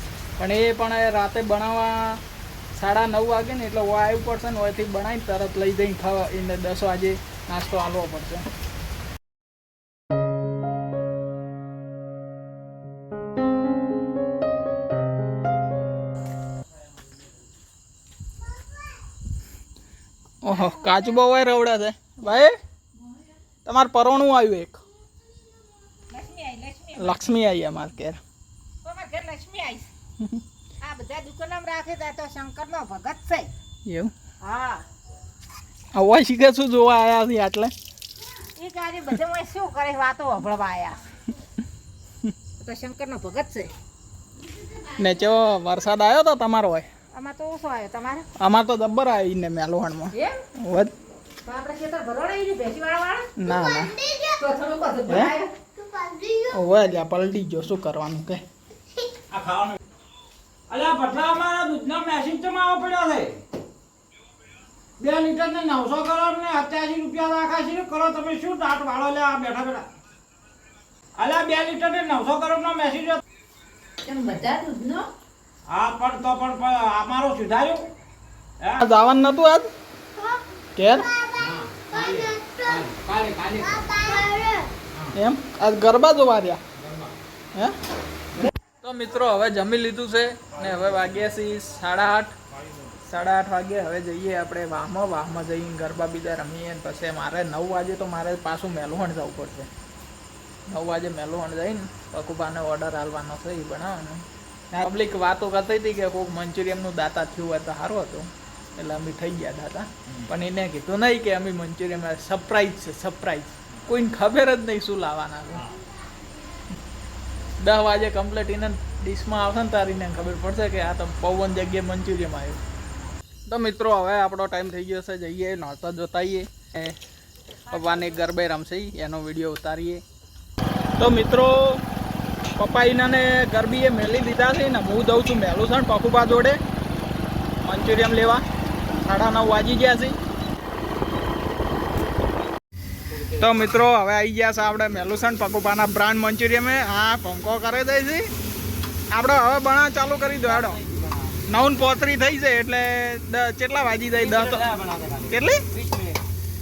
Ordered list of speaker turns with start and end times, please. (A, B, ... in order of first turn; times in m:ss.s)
0:00.4-0:02.2 A
0:02.7-0:08.4 A
0:20.4-0:22.5 A
0:23.6-0:24.8 A
0:26.1-0:27.2 B
0:27.0-0:28.2 A
0:28.8-0:29.9 B
0:30.8-0:33.5 B
0:33.8-0:34.1 A
0:34.4-0:34.8 B
0:35.9-0:37.7 A
0:38.6-0:41.0 B
0:42.6-0:43.7 B
0:45.0-0:46.9 A
0:47.1-0:48.3 B
0:48.4-0:50.9 A
0:51.4-0:56.5 B
0:53.4-0:53.9 A
0:55.1-0:55.3 A
0:56.5-0:58.4 A
0:59.3-0:59.8 C
1:00.7-1:03.4 C
1:05.0-1:09.9 C
1:11.2-1:13.2 C
1:14.0-1:15.1 B
1:15.7-1:17.8 C
1:18.8-1:19.7 A
1:20.8-1:21.1 A
1:21.3-1:23.9 C
1:23.8-1:24.7 B
1:25.1-1:26.6 A
1:26.8-1:27.1 C
1:28.8-1:32.3 A
1:30.6-1:31.1 C
1:32.6-1:32.9 C
1:33.0-1:39.7 A
1:40.7-1:55.6 A
1:57.6-2:02.6 A
2:03.5-2:07.0 A
2:07.7-2:10.0 A
2:11.0-2:11.8 A
2:12.6-2:16.6 A
2:17.6-2:18.4 A
2:19.0-2:20.2 A
2:23.1-2:23.5 C
2:23.4-2:28.3 A
2:29.1-2:30.8 A
2:30.5-2:31.3 C
2:31.5-2:34.6 A
2:34.2-2:36.2 C
2:35.3-2:35.6 A